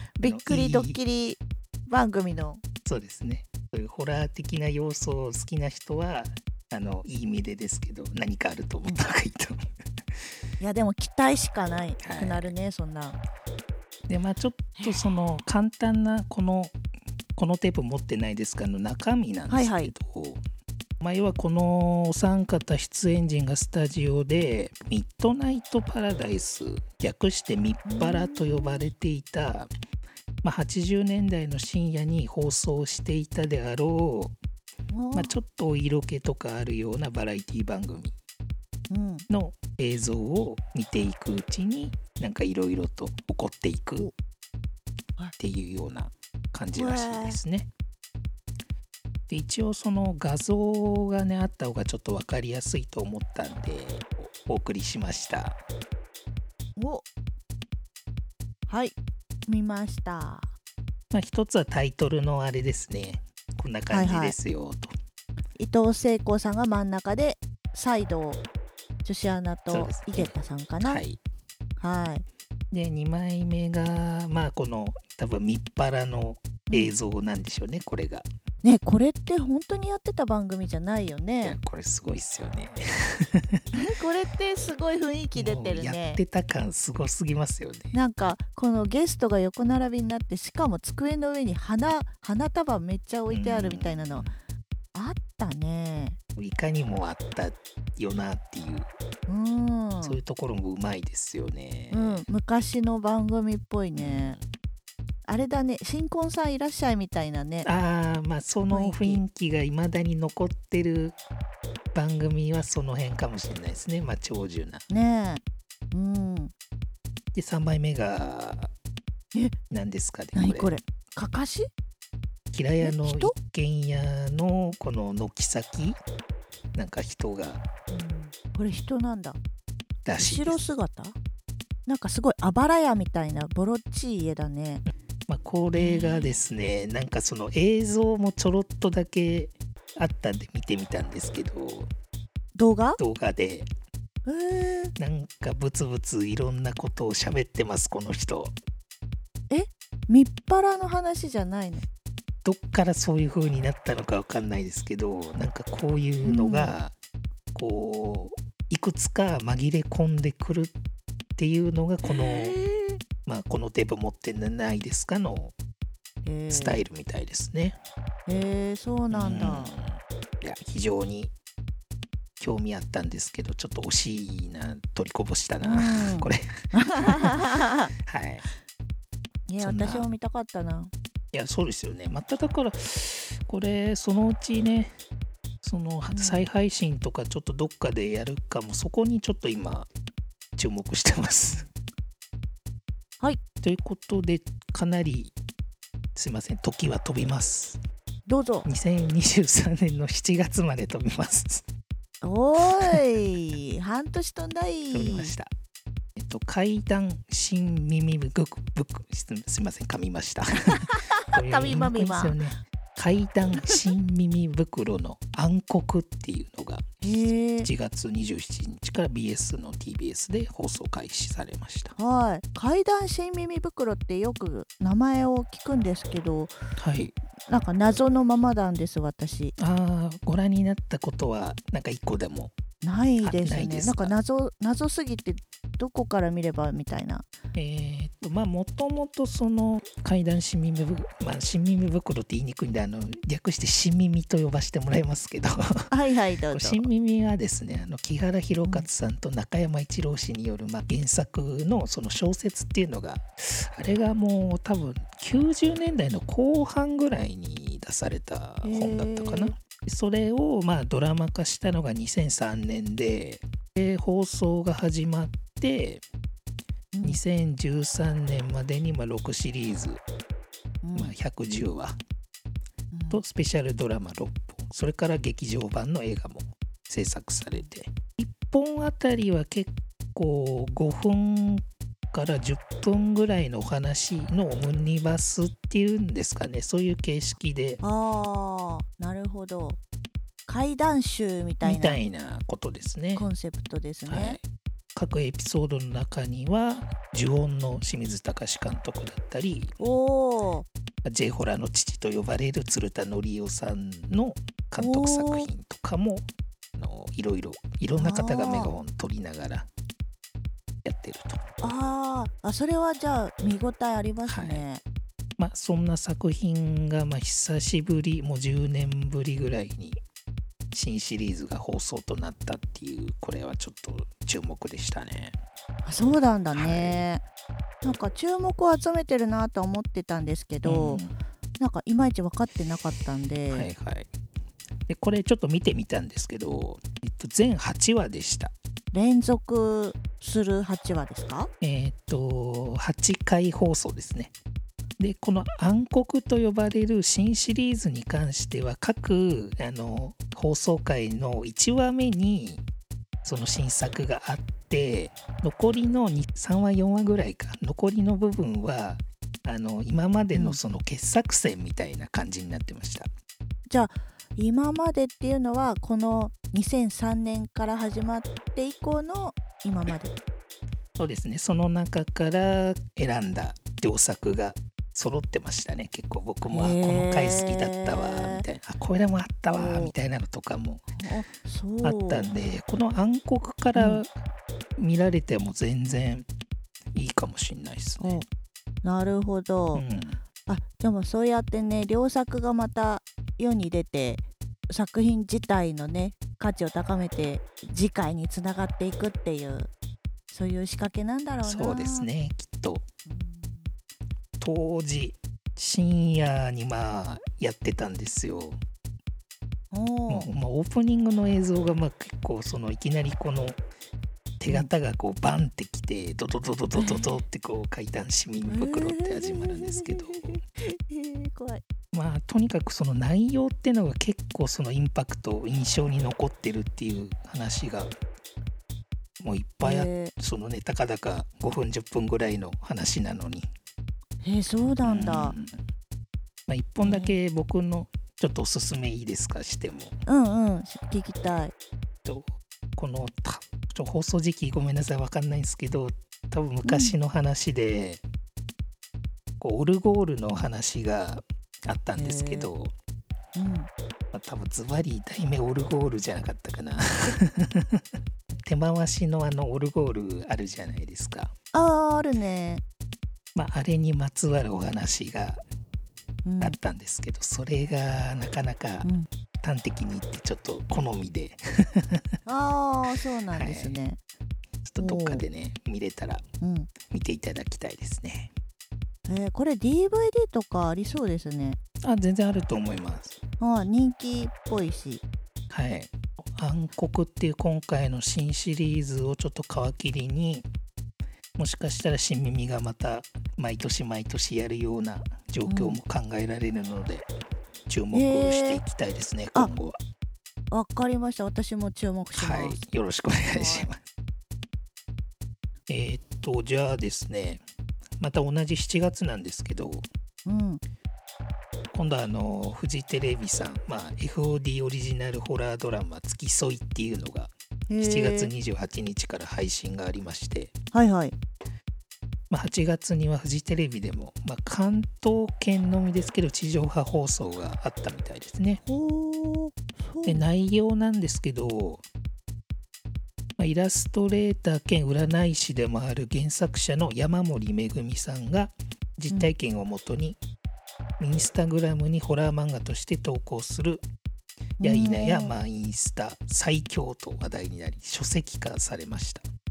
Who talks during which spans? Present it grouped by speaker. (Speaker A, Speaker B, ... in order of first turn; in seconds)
Speaker A: 0.2-2.6, 10.6-13.2, 14.8-15.1, 19.5-19.9, 27.8-28.8, 34.9-35.3, 38.9-39.2, 46.8-47.4, 56.8-57.0, 58.7-59.0, 59.5-60.5, 63.9-64.3, 65.6-68.4, 69.0-71.0, 71.8-72.2, 78.6-81.6, 83.7-86.2, 87.9-94.3, 94.9-96.2, 99.3-100.2, 101.9-104.4, 105.2-107.7, 108.7-109.2, 114.9-115.4, 115.9-116.5, 120.3-121.7, 122.8-123.3, 127.9-129.4, 130.2-131.2, 131.8-134.8, 135.7-136.3, 142.5-143.0, 144.2-144.9, 149.5-151.8, 156.2-156.8, 162.0-163.0, 166.2-166.8, 168.2-169.7, 175.6-177.9, 179.5-180.9, 186.1-186.4, 198.3-198.7, 202.2-205.3, 210.7-212.4, 217.0-217.7, 222.0-226.5, 227.5-229.5, 232.8-237.2, 245.9-246.9, 258.6-259.5, 266.9-267.2, 270.8-271.1, 272.9-273.2, 287.8-289.8, 290.5-292.0, 293.1-294.4, 299.8-300.7, 304.8-305.5, 307.9-308.7, 311.6-314.8, 325.8-327.2, 327.8-331.0, 331.6-333.7, 338.9-341.5, 360.3-360.6, 363.7-370.1, 376.5-378.4, 379.5-379.9, 381.0-382.3, 383.7-384.0, 388.0-388.2, 388.8-389.8, 390.4-399.7, 400.3-402.1, 403.1-403.7, 409.7-410.3, 416.7-417.1, 418.5-421.6, 429.6-430.1, 434.2-435.4, 436.8-437.1, 440.1-441.5, 446.6-446.9, 451.9-452.5, 453.4-453.7, 461.5-462.6, 466.2-466.6, 472.2-474.0, 474.8-475.2, 476.4-476.7, 479.1-481.6, 483.4-485.0, 495.4-495.8, 497.9-498.6, 500.5-502.6, 503.3-503.7, 510.2-510.6, 517.7-518.3, 520.7-521.2, 528.6-530.2, 544.6-545.3
Speaker B: 0.2-1.0, 2.8-9.6, 12.0-12.5, 14.1-16.7, 17.4-20.4, 21.0-29.7, 30.4-34.3, 35.1-38.1, 39.3-44.1, 45.4-47.7, 49.3-55.6, 61.1-64.9, 69.7-71.2, 72.7-78.3, 81.4-83.7, 85.3-87.9, 93.3-94.3, 96.4-98.9, 100.0-102.3, 104.0-104.4, 107.6-111.2, 111.9-114.8, 117.3-118.7, 119.7-120.7, 122.5-126.0, 126.7-127.6, 130.0-130.6, 135.3-141.9, 143.0-143.7, 145.0-148.5, 152.4-156.9, 157.5-160.7, 161.4-162.6, 163.2-165.5, 166.5-167.8, 169.1-171.3, 172.4-176.5, 177.0-177.4, 178.1-178.4, 179.6-180.1, 181.3-184.9, 185.6-189.9, 190.6-191.7, 193.6-195.3, 196.1-197.8, 198.6-201.6, 202.8-203.0, 204.9-205.5, 206.2-216.9, 217.6-221.9, 226.8-227.2, 229.6-232.5, 233.2-234.1, 237.5-245.9, 246.5-266.0, 267.0-270.0, 270.9-272.0, 273.1-287.8, 291.6-293.2, 294.1-294.4, 294.9-299.7, 301.0-309.7, 310.8-311.4, 314.2-314.6, 315.4-320.0, 320.7-325.4, 326.5-327.0, 330.6-331.1, 333.5-334.1, 334.9-338.5, 341.6-344.3, 345.0-352.6, 353.2-363.1, 371.0-381.0, 381.8-384.1, 384.8-386.2, 386.9-388.2, 389.7-390.2, 401.4-402.9, 404.4-408.6, 410.1-413.6, 414.4-420.4, 421.9-427.9, 429.2-433.5, 434.8-435.6, 436.5-440.0, 442.0-448.0, 449.4-452.7, 454.1-457.8, 458.4-461.3, 463.3-465.4, 466.4-468.9, 469.4-472.1, 473.3-473.8, 474.6-476.2, 476.9-478.3, 481.8-483.2, 485.5-490.4, 491.4-497.1, 497.7-499.8, 502.1-503.8, 505.7-507.4, 508.0-509.9, 511.7-520.5, 522.3-528.6, 530.0-531.8, 533.4-540.2, 541.0-543.8, 544.6-549.2